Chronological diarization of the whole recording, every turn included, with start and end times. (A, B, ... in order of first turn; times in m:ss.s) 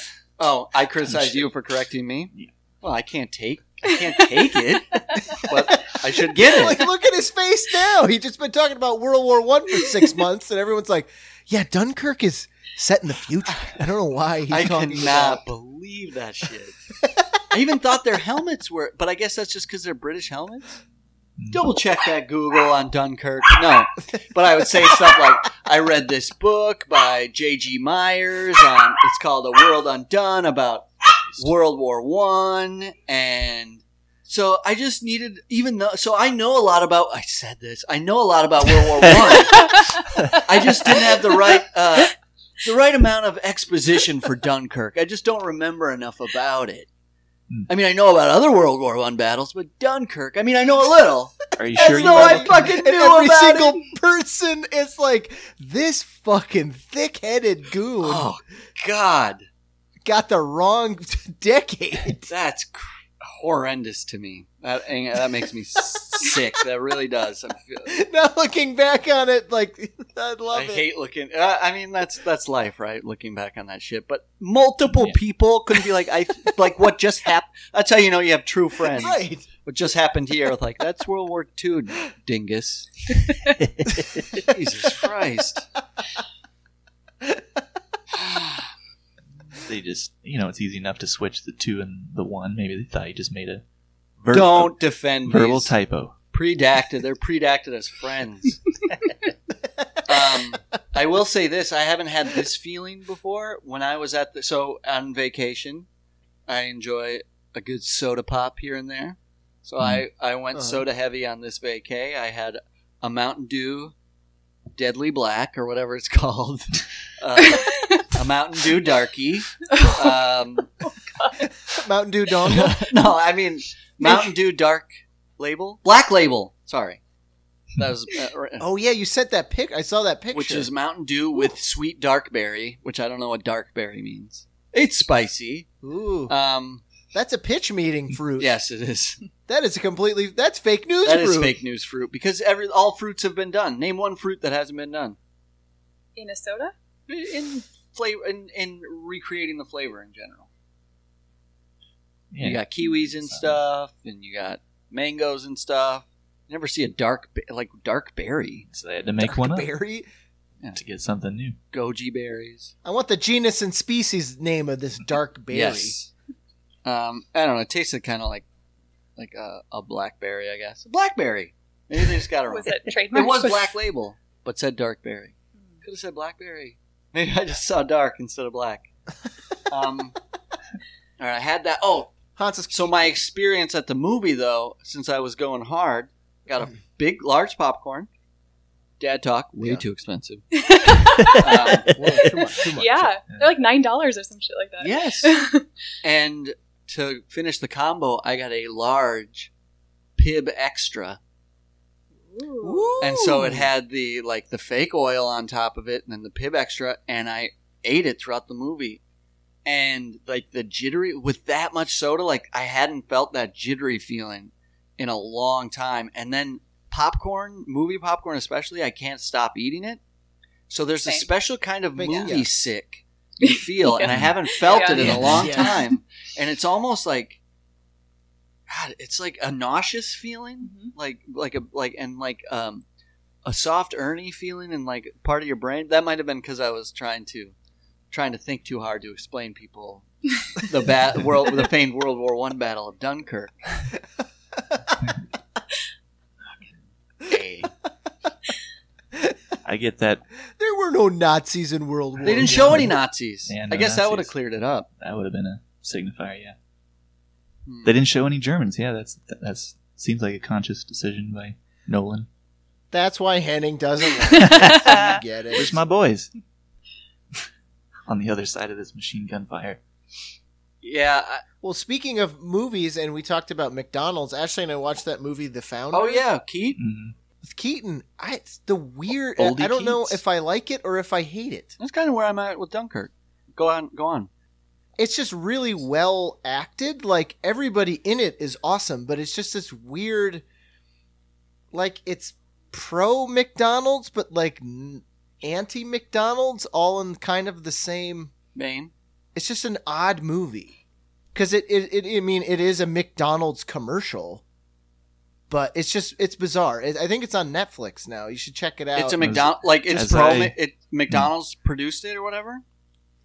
0:00.4-0:06.8 A
0:01.0-0:01.5 B
0:05.5-0:15.4 C
0:14.5-0:16.8 A
0:17.5-0:20.8 A
0:21.4-0:21.7 B
0:21.5-0:39.7 A
0:31.3-0:31.5 B
0:40.3-0:46.9 A
0:47.7-0:53.9 A
0:51.6-0:52.7 B
0:51.7-0:58.3 C
0:58.0-0:59.4 A
1:00.0-1:02.3 C
1:02.3-1:07.9 A
1:07.9-1:10.8 C
1:10.5-1:23.2 A
1:14.9-1:15.2 B
1:18.9-1:19.5 C
1:23.5-1:24.4 B
1:24.4-1:25.7 A
1:28.1-1:28.7 A
1:29.6-1:33.6 B
1:34.2-1:36.2 B
1:34.3-1:35.8 A
1:36.3-1:38.6 A
1:40.1-1:45.9 A
1:46.5-1:53.9 A
1:50.5-1:50.8 C
1:54.8-2:00.7 A
1:57.5-1:58.0 D
1:59.7-2:00.1 D
2:00.8-2:01.4 D
2:01.4-2:02.8 C
2:02.5-2:04.9 A
2:05.4-2:07.0 A
2:07.8-2:08.7 A
2:08.6-2:10.7 C
2:10.3-2:15.7 A
2:15.8-2:16.3 C
2:16.3-2:16.8 A
2:17.1-2:18.5 C
2:18.4-2:19.2 A
2:19.5-2:21.6 C
2:21.0-2:25.2 A
2:26.2-2:26.7 D
2:27.1-2:30.5 A
2:32.3-2:33.6 B
2:32.4-2:38.7 A
2:38.7-2:39.7 B
2:39.2-2:40.1 C
2:40.7-2:41.6 B
2:41.7-2:42.7 A
2:42.8-2:46.0 C
2:45.5-2:46.1 A
2:46.8-2:48.4 A
2:49.2-2:58.9 A
2:52.5-2:53.8 D
2:59.7-3:00.2 A
3:01.2-3:02.1 A
3:02.4-3:03.0 C
3:02.7-3:08.1 A
3:09.0-3:10.4 A
3:09.6-3:09.8 C
3:10.5-3:11.4 D
3:11.3-3:11.9 A
3:11.9-3:13.1 C
3:12.3-3:15.7 D
3:14.8-3:15.4 A
3:16.0-3:19.5 A
3:20.2-3:21.2 A
3:22.3-3:23.0 D
3:22.6-3:23.7 C
3:23.0-3:29.0 A
3:29.6-3:40.0 A
3:40.7-3:47.4 A
3:42.0-3:42.5 C
3:43.4-3:45.7 D
3:44.1-3:44.4 B
3:44.8-3:45.8 C
3:45.0-3:45.6 B
3:48.7-3:52.8 A
3:50.6-3:50.9 D
3:53.4-3:57.6 A
3:58.1-4:03.6 A
4:07.3-4:07.7 A
4:09.6-4:10.2 B
4:10.6-4:12.9 C
4:12.2-4:12.9 B
4:12.2-4:14.9 A
4:13.5-4:14.3 B
4:15.0-4:16.6 B
4:17.7-4:17.9 A
4:17.8-4:22.3 B
4:22.9-4:25.7 C
4:24.4-4:26.3 B
4:28.1-4:29.8 B
4:30.8-4:31.4 A
4:31.6-4:36.2 C
4:35.9-4:36.8 A
4:36.8-4:37.2 B
4:37.4-4:41.7 C
4:39.4-4:40.2 B
4:41.8-4:44.3 A
4:45.0-4:50.4 C
4:51.7-4:58.3 C
4:58.6-4:58.9 A
4:59.4-5:00.8 C
5:01.3-5:04.4 C
5:05.5-5:09.4 C
5:08.9-5:12.6 A
5:09.2-5:10.6 B